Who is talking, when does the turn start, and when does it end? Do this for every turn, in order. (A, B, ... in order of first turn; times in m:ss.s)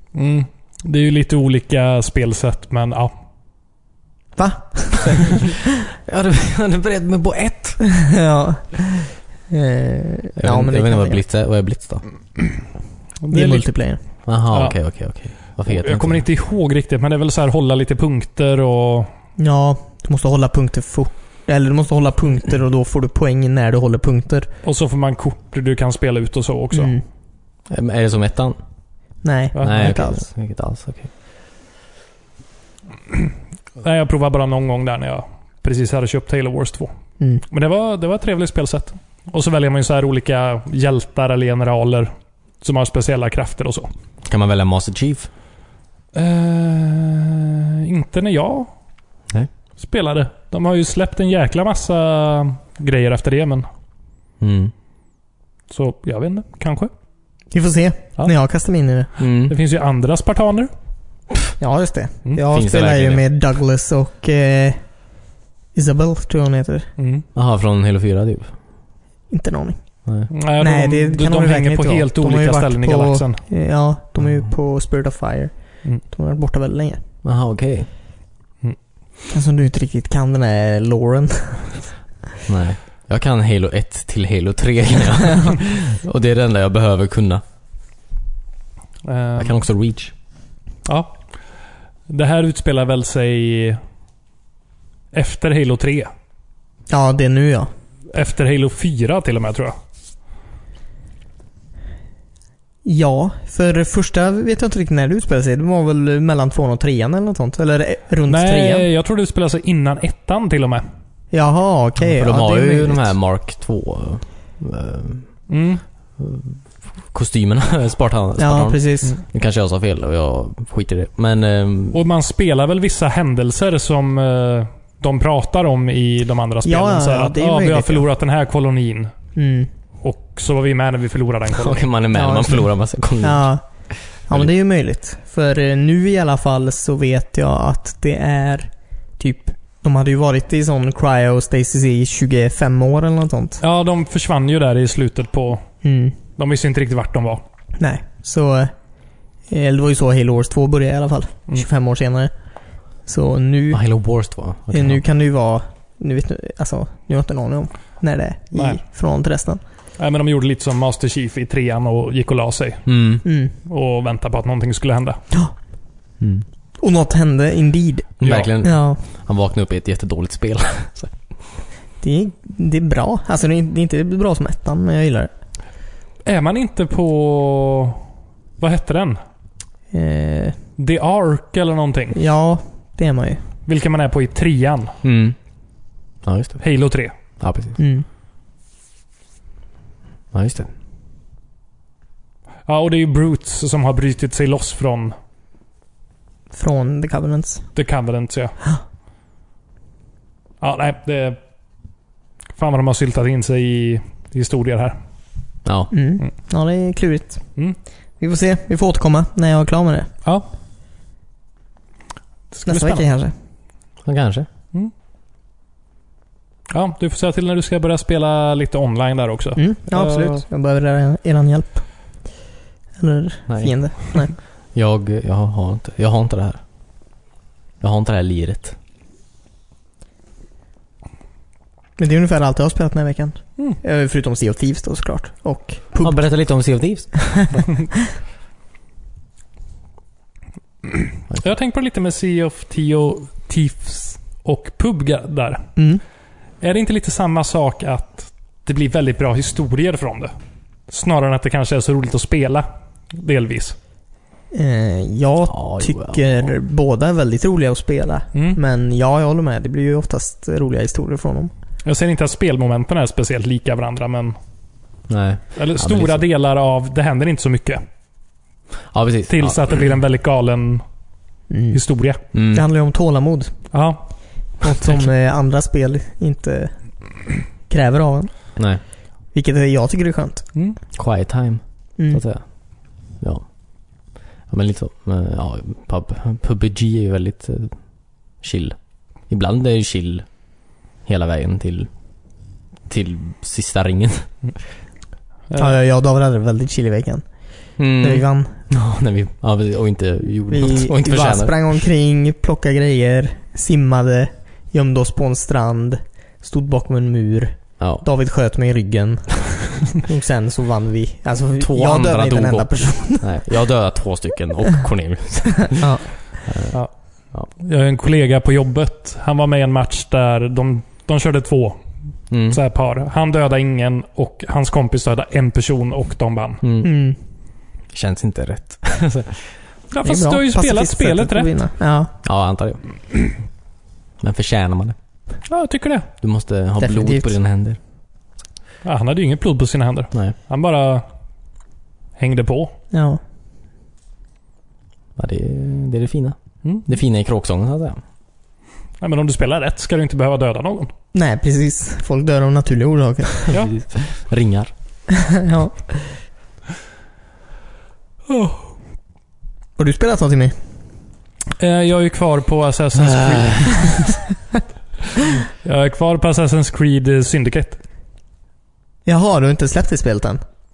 0:00.1-0:03.1 A
0:04.4-0:05.2 B
0:06.0-0:07.8 C
0:07.8-0:11.2 B
0:10.4-0:12.0 C
0:13.2-0:13.6 A
0:13.3-0:14.0 B
0:14.2-0:16.2 C
0:14.5-0:14.8 A
0:15.4-0:19.1 A
0:19.4-0:24.5 B
0:24.6-0:27.0 A
0:26.7-0:27.0 B
0:27.7-0:28.6 C
0:29.2-0:30.2 B
0:29.5-0:29.9 A
0:29.6-0:31.1 C
0:33.1-0:36.9 A
0:37.5-0:43.9 A
0:44.2-0:45.3 C
0:46.1-0:48.7 A
0:49.8-0:53.7 A
0:54.4-0:54.7 C
0:55.7-0:56.9 A
0:57.5-0:59.1 B
0:59.2-0:59.5 C
0:59.5-1:00.7 A
1:01.6-1:04.9 B
1:02.5-1:03.2 C
1:05.7-1:06.9 B
1:07.0-1:07.2 A
1:07.3-1:08.5 C
1:09.3-1:09.8 B
1:10.0-1:10.3 C
1:10.3-1:13.4 A
1:10.6-1:17.0 B
1:17.2-1:17.9 C
1:19.3-1:21.9 B
1:22.5-1:27.4 C
1:29.0-1:29.6 A
1:29.4-1:30.1 C
1:30.8-1:31.2 A
1:32.1-1:33.8 A
1:35.1-1:36.1 A
1:36.9-1:37.7 B
1:38.1-1:39.7 A
1:42.8-1:48.9 B
1:48.3-1:50.8 A
1:51.3-1:53.1 B
1:52.2-1:55.3 C
1:55.5-1:55.8 A
1:56.2-2:02.0 C
1:58.4-1:59.2 B
2:01.9-2:09.1 A
2:06.6-2:08.0 B
2:09.3-2:09.7 B
2:10.0-2:11.8 A
2:11.5-2:13.5 C
2:12.1-2:12.6 B
2:13.2-2:13.6 B
2:14.3-2:23.6 B
2:23.6-2:25.7 A
2:25.8-2:26.1 B
2:26.4-2:27.4 A
2:27.8-2:28.7 B
2:29.5-2:32.3 B
2:33.0-2:33.8 B
2:33.7-2:35.0 C
2:34.7-2:39.6 B
2:38.5-2:38.8 A
2:40.0-2:45.2 A
2:42.8-2:43.2 C
2:43.2-2:43.5 B
2:46.2-2:46.4 C
2:46.8-2:49.0 B
2:48.2-2:51.2 C
2:48.2-2:48.5 A
2:52.0-2:55.3 B
2:56.2-2:58.0 A
2:58.6-2:59.2 A
2:59.9-3:00.6 B
3:00.8-3:02.2 A
3:02.1-3:03.4 B
3:03.7-3:04.9 A
3:05.0-3:05.4 C
3:06.2-3:06.6 C
3:06.6-3:07.1 A
3:07.4-3:07.8 C
3:07.8-3:08.0 B
3:10.3-3:10.7 C
3:12.6-3:15.1 A
3:16.5-3:17.6 B
3:17.7-3:18.6 A
3:20.6-3:21.4 A
3:22.6-3:25.0 A
3:25.6-3:25.9 C
3:25.9-3:27.4 B
3:28.2-3:30.1 B
3:32.5-3:33.0 A
3:32.7-3:33.3 B
3:34.0-3:34.5 C
3:36.7-3:40.4 A
3:39.6-3:41.8 B
3:43.0-3:44.3 B
3:43.5-3:43.7 C
3:44.7-3:46.6 C
3:47.8-3:48.8 C
3:52.0-3:56.1 B
3:56.0-3:57.6 C
4:01.3-4:05.7 A
4:05.8-4:06.0 B
4:06.6-4:10.3 A
4:10.9-4:13.8 A
4:14.5-4:21.5 B
4:15.5-4:16.5 C
4:18.3-4:18.6 A
4:21.8-4:24.4 A
4:25.1-4:26.2 C
4:25.6-4:27.8 A
4:28.9-4:29.6 C
4:29.3-4:30.8 A
4:31.5-4:31.8 B
4:31.7-4:32.2 A
4:32.3-4:32.6 C
4:32.5-4:33.5 B
4:33.7-4:34.1 A
4:34.6-4:36.8 B
4:37.7-4:38.5 B
4:38.6-4:38.8 C
4:39.3-4:40.5 B
4:40.9-4:43.5 C
4:42.0-4:42.2 B
4:44.5-4:48.8 C
4:49.3-4:50.3 C
4:51.0-4:51.9 C
4:52.9-4:54.3 C
4:55.6-4:58.6 B
4:57.8-5:01.6 C
5:00.5-5:13.3 B
5:07.8-5:08.0 C
5:11.6-5:15.9 C
5:15.7-5:16.1 B
5:16.4-5:16.8 C
5:17.5-5:21.8 A
5:22.3-5:22.6 C
5:22.5-5:26.6 A
5:26.6-5:26.9 C
5:26.8-5:27.2 B
5:27.9-5:29.5 C
5:29.9-5:31.5 A
5:30.0-5:32.1 B
5:32.2-5:32.8 C
5:34.2-5:35.0 C
5:35.5-5:36.1 A
5:36.2-5:37.8 C
5:36.8-5:37.3 B
5:38.8-5:41.0 A
5:42.2-5:42.7 A
5:42.9-5:43.2 B
5:45.2-5:48.0 C
5:49.0-5:50.9 A
5:51.1-5:53.5 B
5:53.5-5:54.7 C
5:55.3-5:56.1 B
5:58.3-5:58.6 A
5:59.8-6:00.5 B
6:01.6-6:04.2 A
6:03.0-6:03.9 C
6:05.5-6:07.8 A
6:09.0-6:10.4 B